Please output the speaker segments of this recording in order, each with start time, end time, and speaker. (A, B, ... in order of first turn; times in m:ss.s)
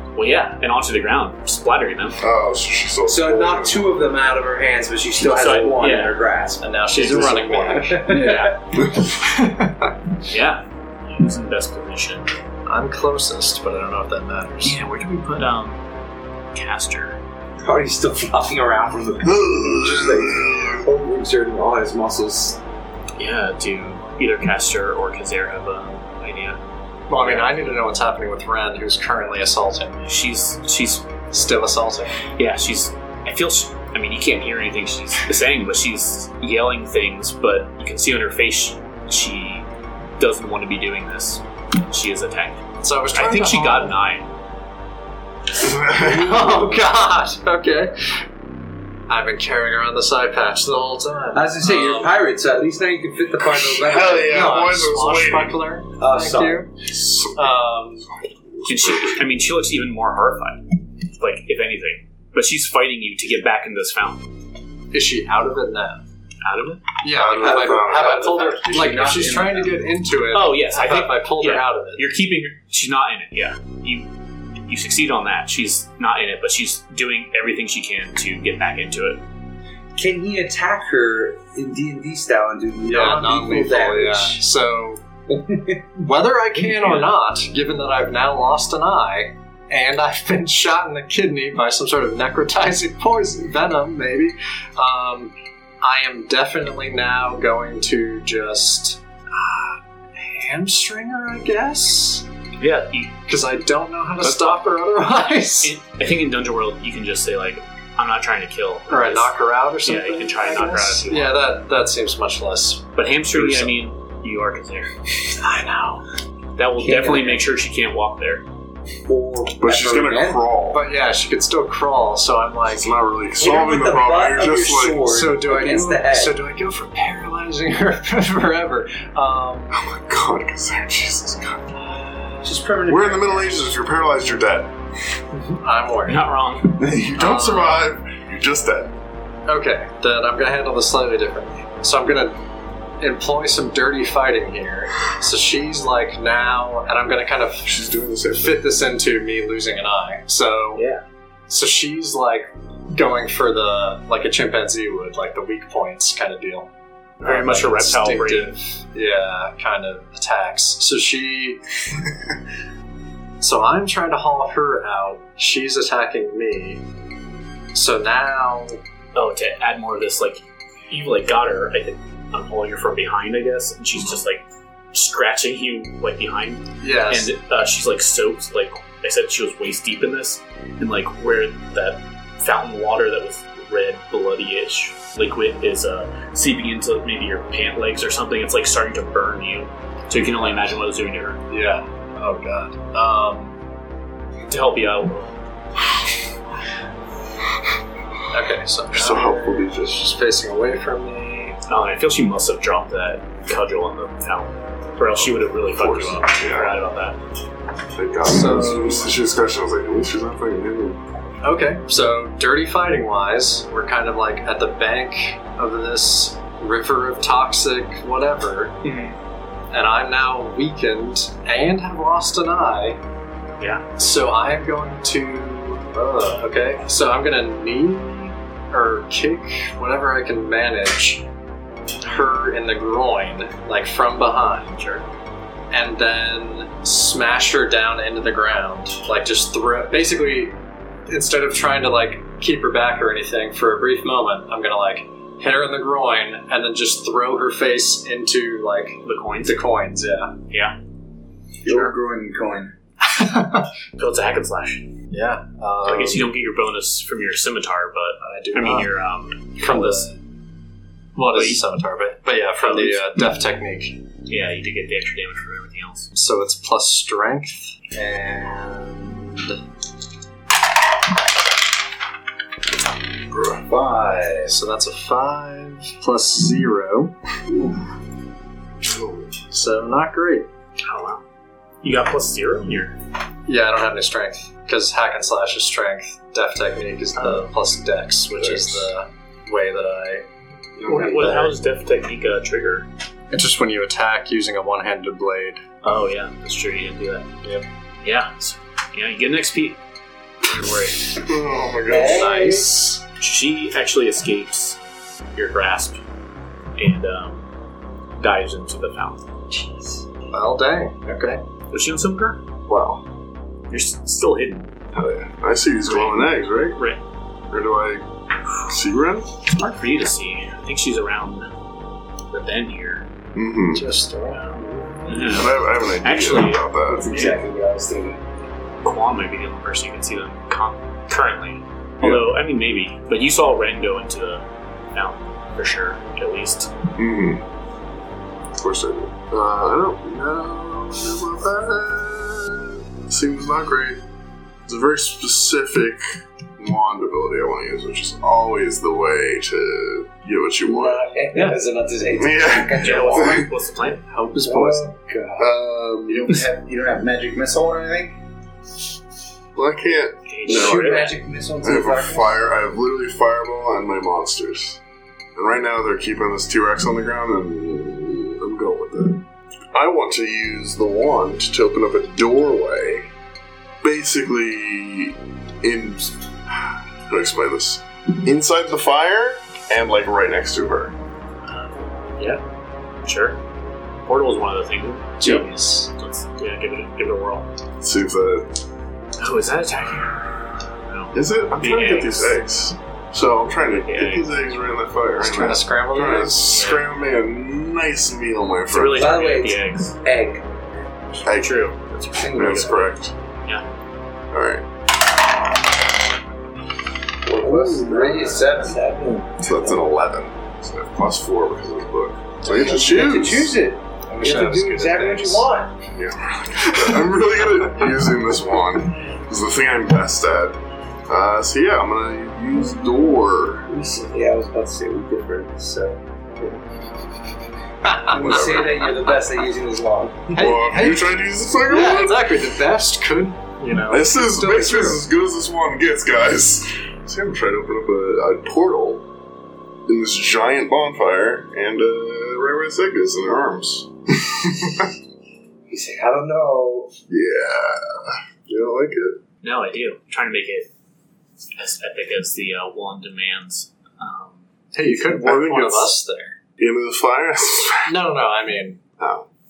0:00.2-0:02.2 A
0:02.2-0:04.0 B
0:03.1-0:08.6 C
0:05.2-0:06.2 A
0:06.6-0:08.1 D
0:06.9-0:08.6 A
0:08.8-0:09.1 B
0:09.2-0:09.7 D
0:10.3-0:12.3 A
0:12.7-0:14.8 D
0:14.6-0:15.8 A
0:16.5-0:17.2 A
0:17.6-0:22.6 C
0:19.2-0:20.9 B
0:23.2-0:26.6 A
0:27.1-0:30.1 D
0:27.2-0:27.6 A
0:30.0-0:31.1 A
0:31.3-0:32.2 D
0:32.4-0:39.7 A
0:40.2-0:44.3 A
0:42.8-0:43.9 D
0:45.6-0:46.9 B
0:45.9-0:48.2 D
0:49.1-0:52.1 D
0:51.4-0:54.9 C
0:53.6-0:55.6 B
0:54.3-0:56.7 D
0:56.0-0:56.7 C
0:56.9-0:59.2 B
0:57.3-0:58.1 D
0:58.7-1:00.7 A
1:01.2-1:04.2 A
1:04.9-1:06.0 D
1:06.4-1:06.9 A
1:07.0-1:12.0 D
1:07.1-1:09.2 B
1:07.5-1:09.5 C
1:07.5-1:09.8 E
1:10.3-1:14.1 A
1:14.7-1:19.2 A
1:20.0-1:24.4 C
1:22.8-1:25.0 D
1:25.3-1:25.8 C
1:26.0-1:42.3 D
1:26.7-1:27.1 A
1:42.6-1:43.2 A
1:43.3-1:45.8 D
1:44.2-1:44.6 A
1:45.6-1:49.3 A
1:48.9-1:53.7 D
1:49.8-1:51.4 A
1:53.0-1:54.9 A
1:55.4-1:56.0 D
1:56.6-1:58.5 A
1:56.8-1:57.5 C
1:59.1-2:00.5 C
1:59.6-2:00.8 B
2:00.7-2:03.0 D
2:02.7-2:05.1 B
2:03.4-2:06.3 C
2:05.0-2:09.8 D
2:09.7-2:11.9 B
2:12.4-2:13.7 C
2:12.9-2:14.8 B
2:15.3-2:16.3 D
2:16.1-2:16.8 A
2:16.7-2:18.9 B
2:17.1-2:17.9 D
2:19.5-2:22.4 D
2:23.0-2:27.7 D
2:27.6-2:28.6 B
2:28.3-2:30.8 D
2:30.8-2:31.0 A
2:31.5-2:36.7 D
2:37.2-2:38.5 A
2:37.2-2:41.6 D
2:43.4-2:46.8 D
2:47.7-2:48.8 D
2:49.2-3:11.4 A
2:56.8-2:57.3 D
3:10.3-3:10.8 D
3:11.5-3:13.6 D
3:14.5-3:15.3 A
3:18.3-3:21.6 D
3:18.9-3:20.0 B
3:21.7-3:27.2 A
3:25.0-3:26.8 B
3:27.9-3:31.0 B
3:28.2-3:29.1 D
3:31.4-3:38.8 D
3:38.8-3:39.2 A
3:39.7-3:43.0 D
3:43.6-3:43.9 A
3:44.0-3:51.3 D
3:52.0-3:54.8 D
3:54.8-3:55.0 A
3:55.7-4:00.6 D
4:01.1-4:10.4 D
4:09.0-4:09.6 A
4:10.5-4:10.8 A
4:11.6-4:12.7 E
4:13.0-4:13.7 D
4:14.0-4:14.9 A
4:15.1-4:16.3 D
4:15.9-4:20.1 A
4:18.2-4:18.9 D
4:19.6-4:20.2 D
4:21.2-4:24.0 D
4:21.3-4:21.6 A
4:22.6-4:23.0 A
4:24.3-4:26.1 A
4:26.1-4:29.6 D
4:33.3-4:33.6 B
4:33.6-4:34.5 E
4:34.5-4:37.2 D
4:38.8-4:39.3 B
4:39.5-4:40.5 D
4:40.8-4:41.2 A
4:41.8-4:43.0 A
4:43.5-4:50.3 D
4:47.2-4:47.5 A
4:48.4-4:48.9 B
4:50.8-4:51.5 B
4:50.9-4:52.9 A
4:50.9-4:51.6 D
4:53.3-4:55.6 D
4:55.8-4:57.3 A
4:58.0-4:59.8 A
5:00.5-5:01.2 A
5:01.1-5:02.6 B
5:01.9-5:02.8 C
5:01.9-5:03.0 D
5:03.2-5:04.8 A
5:05.3-5:06.0 A
5:06.8-5:07.5 A
5:08.2-5:09.2 A
5:10.3-5:11.4 D
5:11.7-5:12.4 A
5:12.7-5:13.0 B
5:13.7-5:14.7 A
5:14.9-5:16.8 B
5:15.8-5:17.0 A
5:17.5-5:18.1 B
5:18.7-5:19.3 B
5:19.5-5:21.5 A
5:22.3-5:23.1 A
5:23.4-5:23.9 B
5:23.7-5:24.4 D
5:24.3-5:27.4 A
5:25.2-5:27.2 B
5:26.9-5:28.2 C
5:28.8-5:36.7 A
5:32.0-5:32.3 B
5:37.0-5:37.4 B
5:38.6-5:44.0 B
5:44.7-5:46.0 B
5:46.6-5:51.1 B
5:50.6-5:53.5 C
5:52.2-5:53.5 B
5:52.8-5:54.0 A
5:54.1-5:55.0 D
5:54.4-5:55.5 C
5:55.4-5:56.3 B
5:56.1-5:58.2 E
5:59.6-6:01.0 B
6:00.3-6:01.2 A
6:00.5-6:02.4 C
6:01.6-6:04.8 B
6:05.4-6:13.1 B
6:13.8-6:16.3 B
6:17.1-6:21.0 B
6:21.5-6:22.4 A
6:23.0-6:23.4 A
6:24.0-6:27.5 A
6:25.2-6:25.9 D
6:27.8-6:28.6 B
6:29.2-6:30.2 A
6:30.9-6:32.4 A
6:31.1-6:39.2 B
6:33.6-6:34.2 A
6:35.2-6:36.5 D
6:36.4-6:36.9 A
6:38.7-6:40.0 A
6:39.0-6:40.5 C
6:41.2-6:41.7 B
6:41.3-6:42.8 A
6:42.2-6:42.9 C
6:42.3-6:43.1 B
6:44.3-6:44.7 B
6:47.3-6:49.8 C
6:47.4-6:48.7 D
6:49.4-6:53.6 B
6:52.4-6:55.8 C
6:54.2-6:55.5 D
6:55.9-7:03.7 B
6:56.6-6:56.9 D
7:02.8-7:03.2 C
7:03.7-7:06.6 C
7:08.1-7:10.4 C
7:08.2-7:08.9 B
7:10.4-7:15.0 D
7:10.4-7:12.3 B
7:13.9-7:19.1 B
7:19.9-7:24.9 B
7:25.7-7:26.9 C
7:27.1-7:29.2 B
7:29.4-7:30.7 A
7:31.6-7:34.5 A
7:34.7-7:36.4 D
7:34.9-7:35.9 B
7:36.6-7:38.0 B
7:37.9-7:38.8 D
7:39.0-7:39.3 B